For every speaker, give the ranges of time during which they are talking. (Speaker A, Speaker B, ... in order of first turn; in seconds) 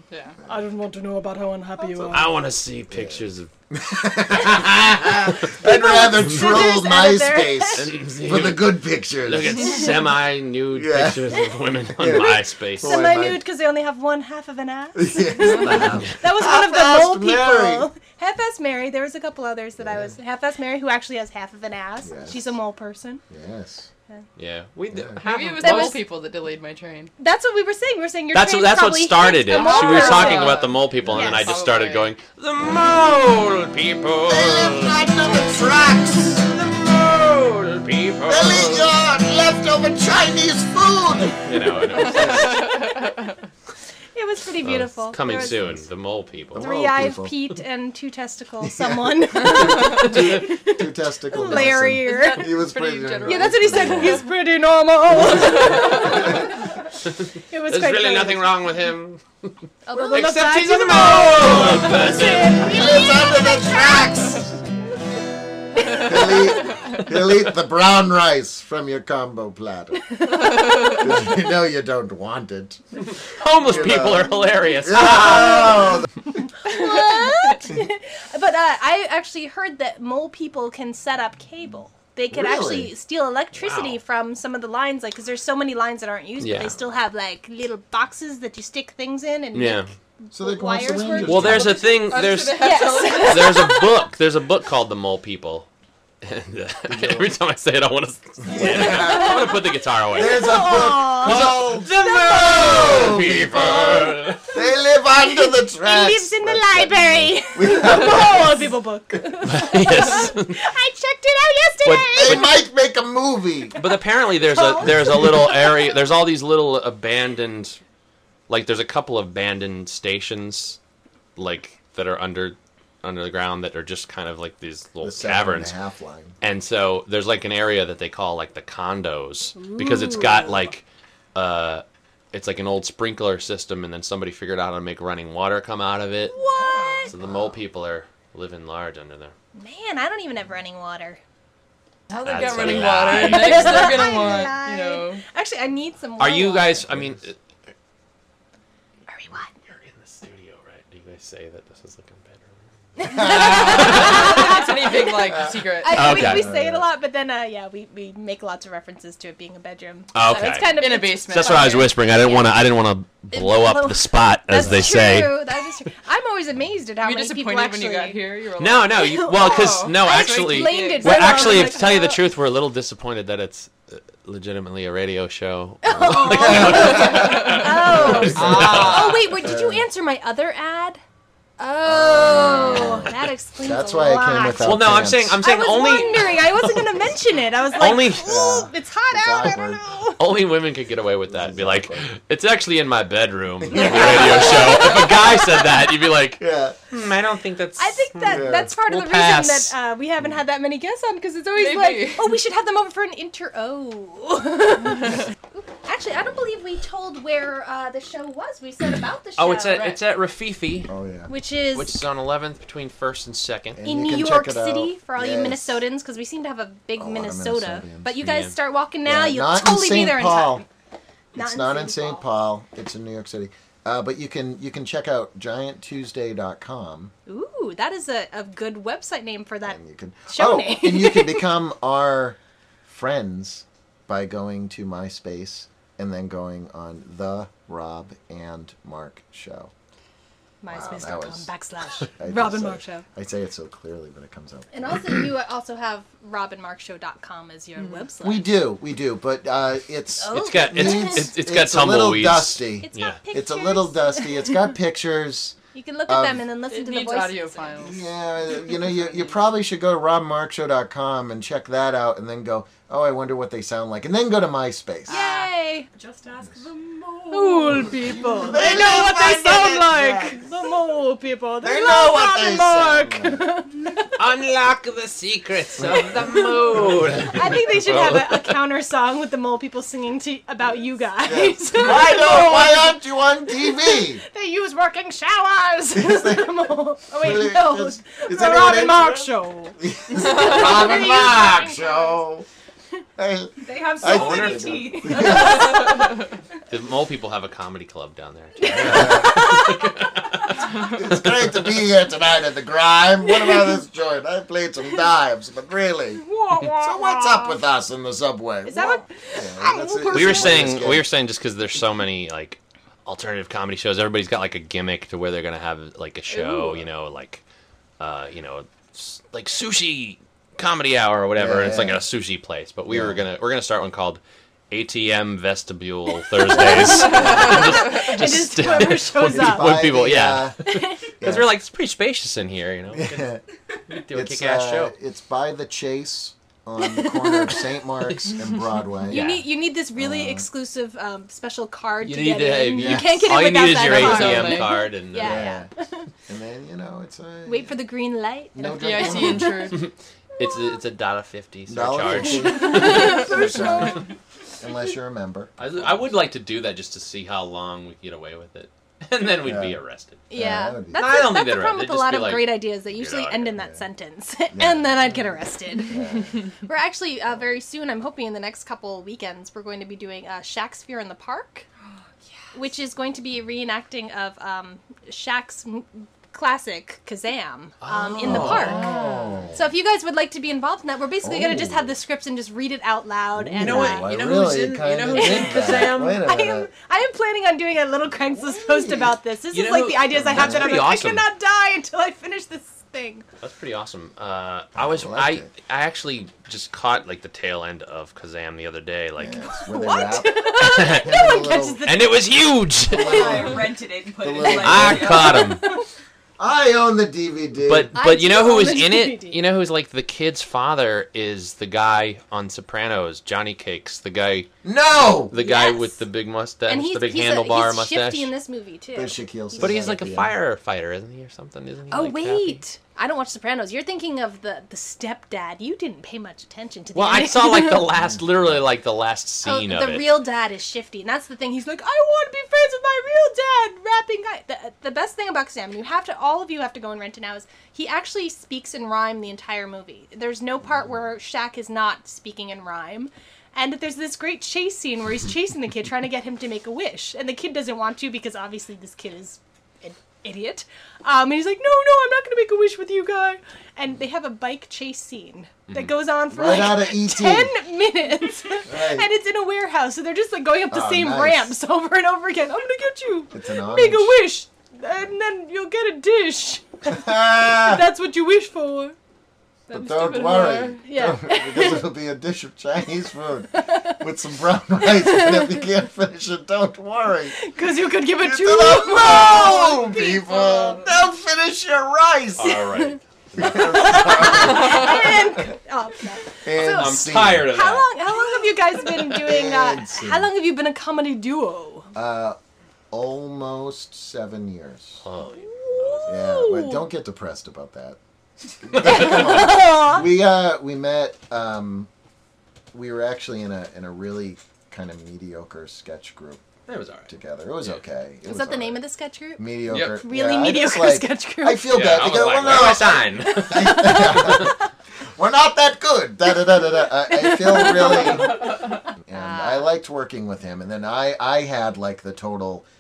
Speaker A: 0.1-0.4, 25.2-27.1, 29.5-32.1, 42.1-43.3, 52.0-54.2, 76.7-77.2, 91.5-93.8, 136.4-137.1, 142.1-145.2, 153.5-156.2, 160.7-161.9, 167.0-171.8, 177.2-177.7, 178.3-179.1, 193.7-195.3, 201.6-202.4, 256.7-258.1, 267.4-268.5, 316.3-316.9, 343.8-344.9, 348.7-349.8, 469.7-470.8
Speaker B: 0.5-2.3, 5.6-7.9, 12.1-23.2, 25.6-26.0, 27.2-31.5, 44.1-45.8, 46.6-52.5, 53.2-56.7, 57.5-58.5, 59.9-64.5, 65.9-66.3, 70.0-71.2, 76.5-91.8, 92.5-94.0, 98.8-99.6, 100.1-103.2, 105.2-112.6, 114.4-115.9, 129.6-130.7, 136.3-137.1, 139.6-141.2, 142.6-146.9, 149.1-149.5, 153.0-162.5, 163.3-172.2, 175.8-181.0, 181.6-190.2, 193.8-195.7, 197.8-210.0, 211.3-211.9, 213.8-220.7, 221.3-222.2, 227.3-231.5, 240.6-243.1, 244.7-248.5, 250.2-251.3, 252.8-254.7, 255.7-257.8, 265.1-265.9, 267.3-274.2, 276.2-283.0, 283.5-292.2, 295.0-296.2, 298.6-300.9, 303.4-303.7, 306.2-307.6, 308.7-310.8, 326.5-329.8, 330.6-331.1, 336.8-337.7, 339.1-346.1, 347.5-349.8, 350.4-350.7, 352.2-354.0, 360.3-371.7, 372.5-378.9, 379.5-384.1, 385.1-393.3, 399.4-402.2, 403.1-403.5, 404.9-405.9, 407.9-409.4, 415.3-416.0, 416.7-420.0, 421.9-427.9, 429.4-468.9, 470.8-471.9, 473.6-474.0, 475.0-475.6, 477.3-480.9, 482.7-491.9, 495.4-496.9, 498.8-500.0, 508.2-509.5, 510.0-511.8, 512.9-514.6, 517.2-518.5, 519.1-519.7
Speaker C: 1.9-2.2, 2.9-10.0, 10.7-13.4, 15.0-17.9, 19.8-20.1, 22.0-22.4, 23.3-23.9, 24.9-25.2, 34.3-36.5, 38.3-42.6, 46.5-47.3, 48.6-54.3, 55.4-56.4, 61.4-64.5, 65.9-72.8, 73.7-76.1, 82.3-82.9, 90.3-91.8, 96.9-97.3, 98.5-99.6, 100.1-109.2, 112.1-113.8, 125.0-126.3, 137.2-137.5, 146.9-147.2, 153.0-154.1, 155.2-156.9, 175.9-179.9, 181.8-185.4, 188.1-189.8, 191.3-192.1, 193.7-194.9, 196.4-196.8, 198.3-198.7, 210.9-211.3, 213.7-215.8, 217.0-218.2, 219.1-220.6, 221.3-227.1, 229.7-239.7, 240.7-241.5, 242.2-245.1, 248.2-255.6, 256.1-256.4, 257.8-265.2, 268.0-270.4, 271.6-273.5, 281.2-284.2, 285.9-292.5, 293.2-296.0, 298.7-299.6, 300.7-311.1, 321.4-322.0, 322.9-323.2, 326.9-327.7, 328.6-331.6, 332.9-333.4, 334.1-339.3, 340.0-340.5, 342.7-343.4, 345.1-345.7, 346.3-347.8, 348.6-349.8, 351.7-354.1, 354.6-355.6, 359.4-359.8, 360.3-361.2, 364.5-366.5, 378.2-379.6, 381.2-381.9, 383.4-386.7, 388.3-389.2, 390.1-390.8, 394.8-395.5, 399.2-401.9, 402.9-405.3, 406.4-407.9, 414.6-415.4, 418.9-420.3, 456.3-457.5, 458.7-459.1, 460.7-461.5, 463.3-464.2, 466.9-467.9, 469.7-477.4, 478.2-482.6, 483.4-485.4, 486.4-487.5, 489.1-490.3, 491.9-492.4, 492.9-495.1, 496.1-498.0, 498.6-501.9, 502.7-506.4, 507.1-508.8, 509.4-514.6, 515.1-518.5, 519.1-522.6
Speaker D: 2.1-3.5, 4.5-5.3, 7.8-13.1, 15.5-16.1, 24.4-26.0, 28.3-35.1, 36.3-38.9, 41.4-42.8, 44.6-46.7, 57.7-63.0, 73.1-76.0, 83.5-84.0, 86.4-86.7, 89.5-89.9, 91.2-95.7, 96.2-104.5, 109.4-110.6, 111.8-112.6, 113.8-117.8, 118.5-120.8, 121.4-125.8, 126.4-136.4, 137.1-139.3, 142.2-144.5, 146.2-147.4, 149.7-154.6, 155.9-156.5, 160.1-165.4, 168.6-179.3, 184.6-187.1, 187.8-188.4, 190.2-199.7, 209.4-210.9, 211.7-213.8, 218.2-218.6, 250.3-253.2, 274.2-278.6, 294.0-294.7, 296.7-301.6, 310.1-317.4, 318.0-324.2, 324.7-334.9, 339.1-339.5, 342.0-345.5, 349.7-353.3, 355.6-360.2, 360.9-363.6, 377.8-379.4, 383.6-386.2, 389.5-391.3, 393.4-399.6, 400.6-403.5, 404.4-405.6, 407.6-414.5, 415.0-418.3, 419.6-422.6, 426.9-430.2, 482.4-484.8, 486.6-488.1, 495.0-496.2, 498.7-499.4, 506.7-507.8, 509.7-510.0, 511.7-514.5
Speaker E: 265.1-267.7, 293.6-295.6, 402.9-405.6